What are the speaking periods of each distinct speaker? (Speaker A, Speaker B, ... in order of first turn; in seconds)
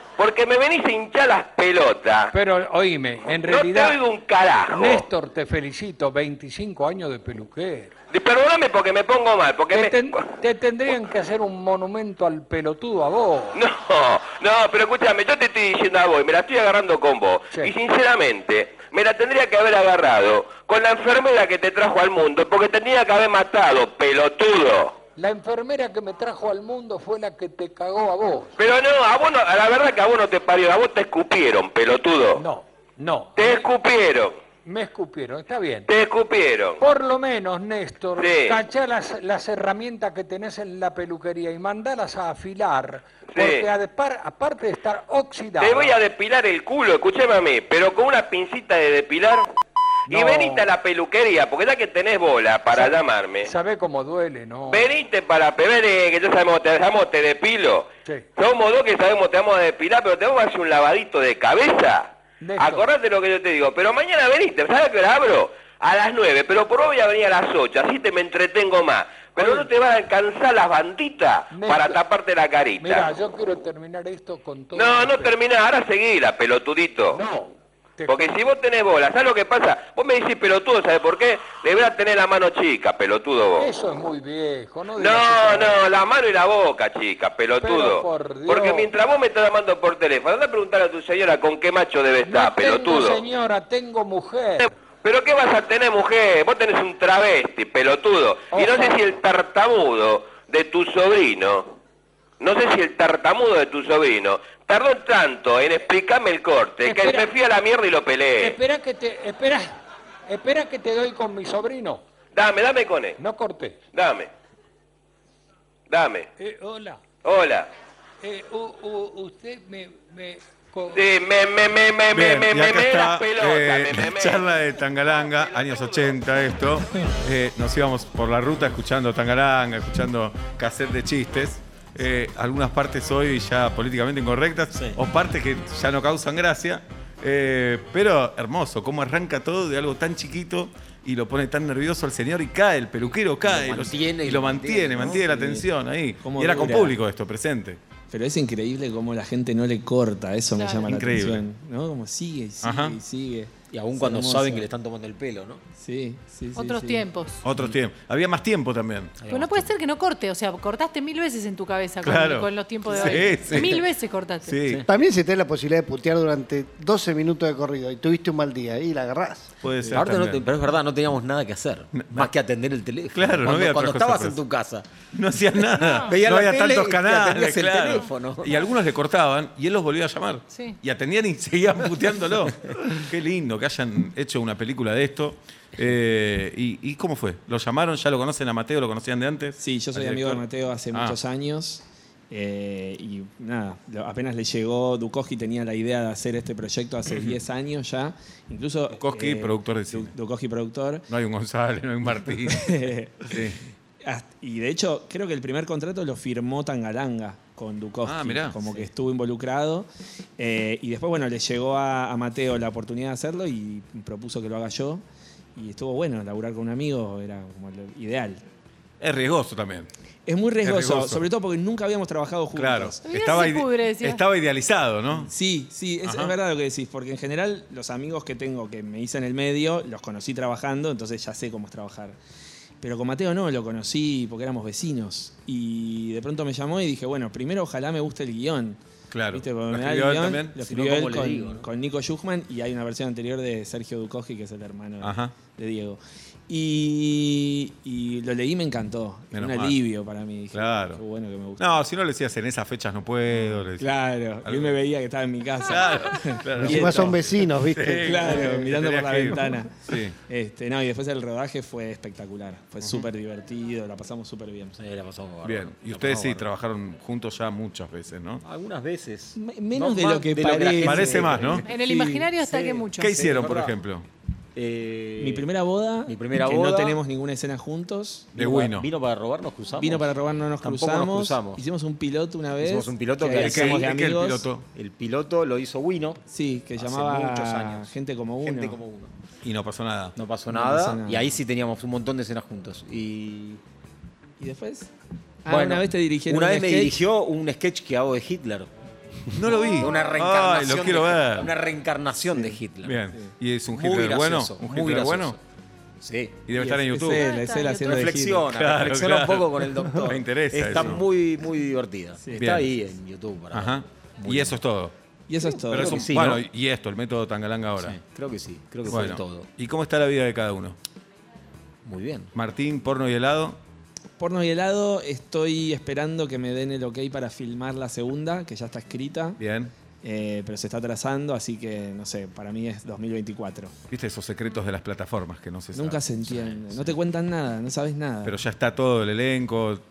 Speaker A: 0.2-2.3, 3.4-5.0, 8.1-10.4, 13.5-25.0, 28.6-32.4, 33.4-34.4, 35.9-36.8, 38.2-38.6, 43.3-43.7, 45.6-49.5, 50.1-53.5, 54.7-73.1, 74.7-77.2, 78.1-83.7, 85.0-93.2, 95.0-101.8, 102.4-108.6, 112.3-113.2, 113.9-114.3, 115.9-116.3, 117.2-117.7, 120.9-124.5
Speaker B: 2.3-4.0, 4.7-7.9, 9.7-13.6, 25.2-28.5, 32.4-33.6, 34.6-35.9, 36.8-46.0, 50.1-50.7, 52.7-54.9, 62.4-62.9, 69.4-69.7, 71.5-72.0, 72.8-75.3, 77.1-78.3, 83.6-85.8, 87.6-88.9, 92.2-94.7, 98.5-98.9, 106.8-107.3, 108.4-109.8, 110.3-112.0, 113.2-113.8, 116.4-117.0, 118.2-121.0
Speaker C: 122.1-147.8, 150.9-151.4, 152.6-153.0, 157.4-159.2, 162.0-163.8, 164.4-164.8, 169.6-170.4, 171.9-172.3, 173.1-174.4, 175.1-191.2, 198.9-200.1, 201.1-203.6, 208.0-208.7, 219.0-219.9, 220.6-221.2, 222.6-225.3, 226.0-226.3, 239.1-240.6, 245.0-245.3, 249.3-249.8, 250.5-251.0, 251.6-254.8, 255.7-260.1, 265.4-268.4, 270.8-271.6, 273.0-274.1, 278.4-278.9, 283.3-284.6, 289.4-290.1, 299.3-301.5, 302.8-305.4, 306.5-307.2, 308.5-311.1, 312.4-312.7, 313.5-314.9, 315.6-318.0, 318.9-320.8, 322.4-323.6, 329.4-329.7, 333.9-336.8, 338.2-339.8
Speaker D: 143.4-145.4, 153.7-155.6, 159.2-159.7, 162.9-163.8, 169.9-174.9, 176.1-178.6, 240.6-241.7, 264.8-266.5, 268.4-271.7, 272.4-273.8, 274.6-275.5, 276.1-277.0, 278.4-280.1, 280.6-281.6, 282.6-283.9, 284.7-286.2, 286.8-287.9, 288.4-289.1, 290.1-293.6, 295.5-298.7, 299.8-303.0, 303.7-305.4, 306.0-306.4, 307.7-314.6, 315.7-316.4, 317.8-319.5, 321.9-322.3
Speaker E: 145.0-145.7, 146.2-147.0, 148.1-154.7, 155.8-157.1, 189.6-201.1, 202.5-203.4, 204.0-215.0, 215.6-218.4, 220.2-223.0, 225.1-232.2, 232.8-238.8, 239.3-251.8, 253.8-257.2, 258.0-264.8, 269.4-272.3, 275.2-278.5, 279.8-284.5, 286.3-288.8, 290.5-291.4, 294.4-294.9, 295.4-297.0, 302.3-302.6, 306.5-308.5, 312.2-312.6, 315.3-316.1, 324.2-329.4, 330.0-333.7, 335.7-338.4
Speaker F: 150.5-150.9, 156.5-157.4, 159.3-164.6, 175.7-176.1, 180.5-180.8, 223.0-224.2, 271.6-273.2, 299.6-299.9, 307.1-308.0
Speaker G: 164.9-169.5, 256.6-258.5